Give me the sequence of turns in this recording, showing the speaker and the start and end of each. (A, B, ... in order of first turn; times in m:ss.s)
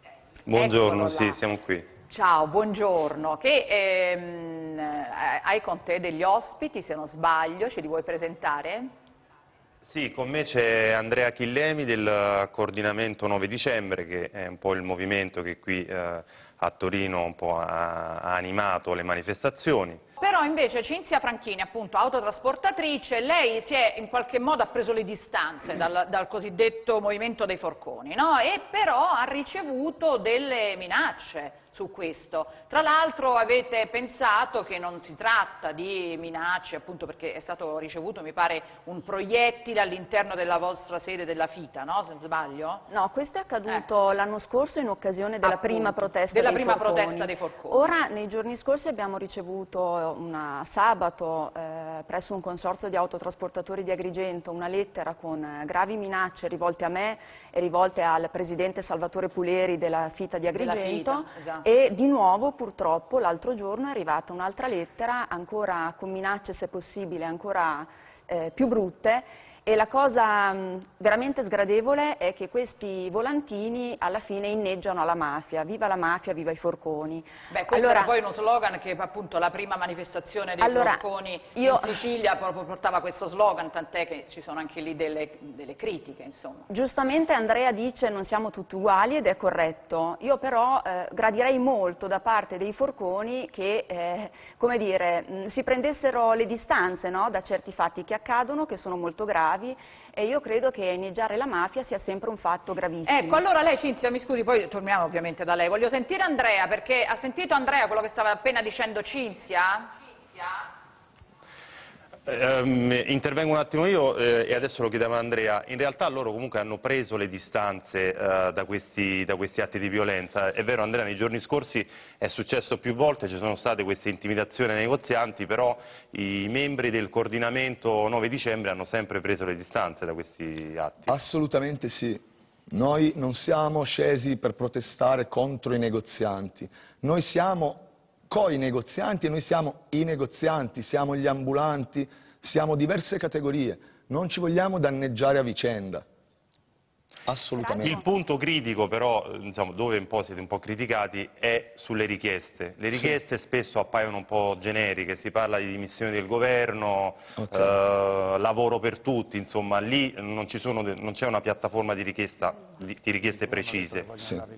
0:00.5-0:01.9 A
0:00.5-0:01.4 B
0:02.1-0:08.9 B
0:09.8-0:20.0 A
0:20.2-0:42.9 B
0:42.9-1:18.1 C
0:45.4-0:48.0 B
1:00.5-1:01.7 B
1:17.5-1:26.7 B
1:20.6-1:22.0 C
1:26.7-1:43.4 C
1:43.1-1:50.6 B
1:52.3-2:11.2 A
2:11.1-2:26.0 D
2:27.2-2:28.0 D
2:27.6-2:28.2 C
2:27.8-2:44.2 A
2:37.4-2:37.8 D